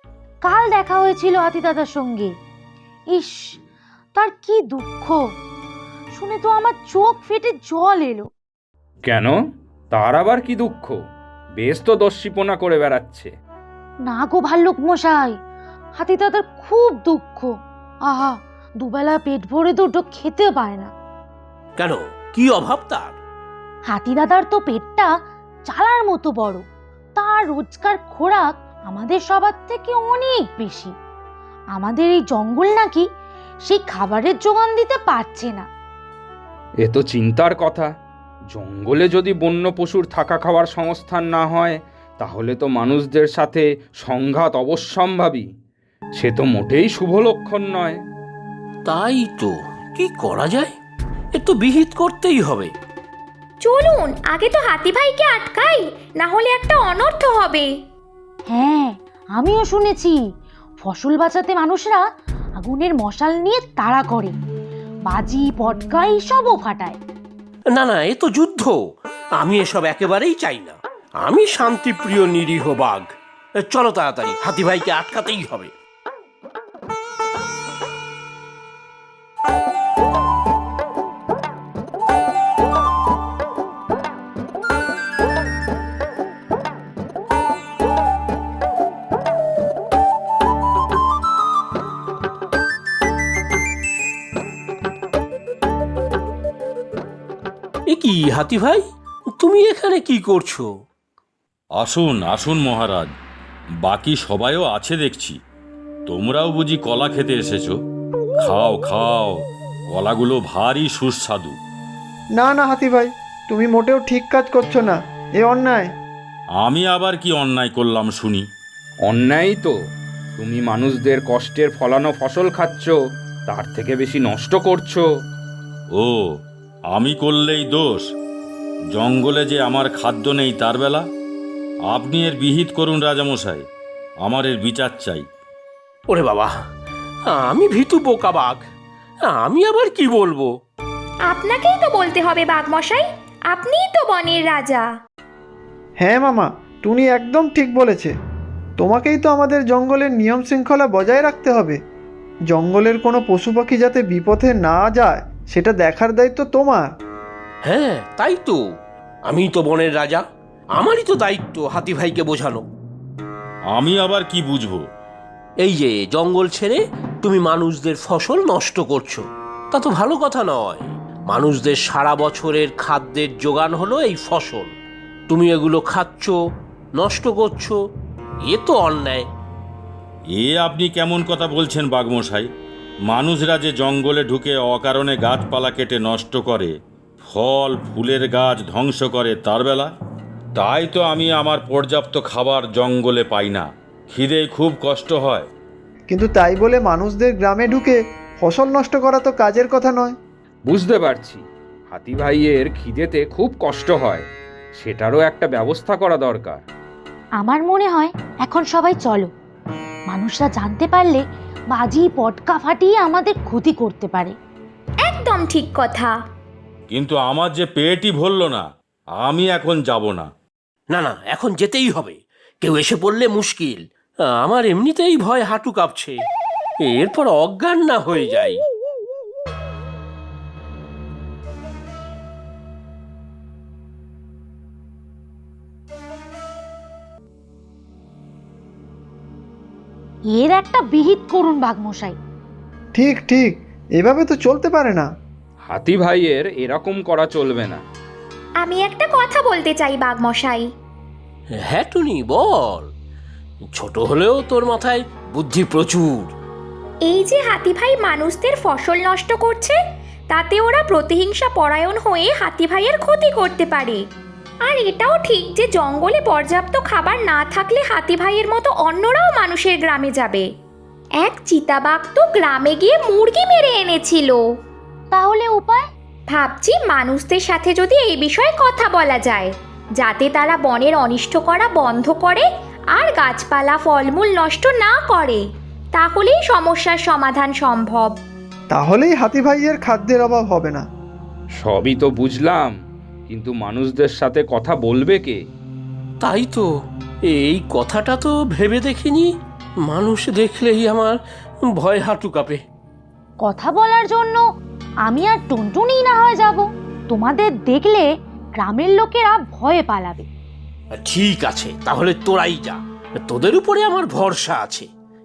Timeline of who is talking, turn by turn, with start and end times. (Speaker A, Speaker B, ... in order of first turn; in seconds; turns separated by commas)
Speaker A: 0.4-2.3, Speaker A: 3.1-3.6, Speaker A: 4.2-5.2, Speaker A: 6.1-8.3, Speaker B: 9.0-9.4, Speaker B: 9.9-11.0, Speaker B: 11.6-13.3, Speaker A: 14.1-15.3, Speaker A: 16.0-17.5, Speaker A: 18.1-20.9, Speaker C: 21.8-23.2, Speaker A: 23.9-25.1, Speaker A: 25.7-26.6, Speaker A: 27.2-30.9, Speaker A: 31.7-33.1, Speaker A: 33.7-35.7, Speaker B: 36.8-37.9, Speaker B: 38.5-45.5, Speaker B: 46.2-48.0, Speaker C: 48.9-50.7, Speaker C: 51.4-52.7, Speaker D: 53.6-57.7, Speaker A: 58.5-60.2, Speaker A: 60.8-62.0, Speaker A: 62.6-64.3, Speaker A: 65.1-67.0, Speaker C: 67.7-68.8, Speaker C: 69.4-73.1, Speaker C: 73.6-75.7, Speaker C: 97.9-98.8, Speaker C: 99.4-100.7, Speaker E: 101.8-103.1, Speaker E: 103.8-105.4, Speaker E: 106.1-107.8, Speaker E: 108.4-111.6, Speaker F: 112.3-115.9, Speaker E: 116.6-118.5, Speaker B: 119.0-119.7, Speaker B: 120.4-123.0, Speaker B: 123.5-125.1, Speaker E: 126.0-126.2, Speaker E: 126.9-128.1, Speaker E: 128.9-131.1, Speaker E: 131.9-133.7, Speaker E: 134.2-135.3, Speaker C: 136.1-136.5, Speaker C: 137.3-138.6, Speaker C: 139.3-140.5, Speaker D: 141.3-144.9, Speaker F: 146.0-148.1, Speaker F: 148.8-151.8, Speaker F: 152.5-156.9, Speaker C: 157.7-158.6, Speaker C: 159.3-160.2, Speaker C: 160.8-162.7, Speaker E: 163.7-164.8, Speaker C: 165.6-174.7, Speaker C: 175.3-176.4, Speaker C: 177.0-177.8, Speaker C: 178.5-179.3, Speaker E: 180.3-182.5, Speaker E: 183.1-186.7, Speaker E: 187.3-189.9, Speaker E: 190.6-195.5, Speaker F: 196.1-200.2, Speaker B: 200.7-206.6, Speaker A: 207.4-209.3, Speaker A: 210.1-214.3, Speaker D: 215.0-216.2, Speaker E: 216.9-218.7, Speaker E: 219.2-220.3, Speaker C: 220.9-223.8, Speaker C: 224.4-226.2, Speaker C: 226.9-228.6, Speaker A: 240.3-242.2, Speaker F: 242.9-245.1, Speaker B: 245.7-247.8, Speaker D: 248.6-250.7, Speaker C: 251.6-252.9, Speaker C: 253.7-256.3, Speaker D: 257.1-259.8, Speaker D: 260.3-264.0, Speaker D: 264.7-270.5, Speaker D: 271.2-274.4, Speaker A: 275.1-275.8, Speaker D: 276.3-285.4, Speaker D: 285.9-288.1, Speaker F: 288.7-290.9, Speaker B: 291.6-292.8, Speaker B: 293.3-295.4, Speaker C: 296.2-296.7, Speaker C: 297.3-299.3, Speaker C: 299.9-301.2, Speaker C: 301.7-302.6, Speaker A: 303.4-304.4, Speaker A: 305.1-308.1, Speaker A: 308.6-310.3, Speaker C: 310.9-314.9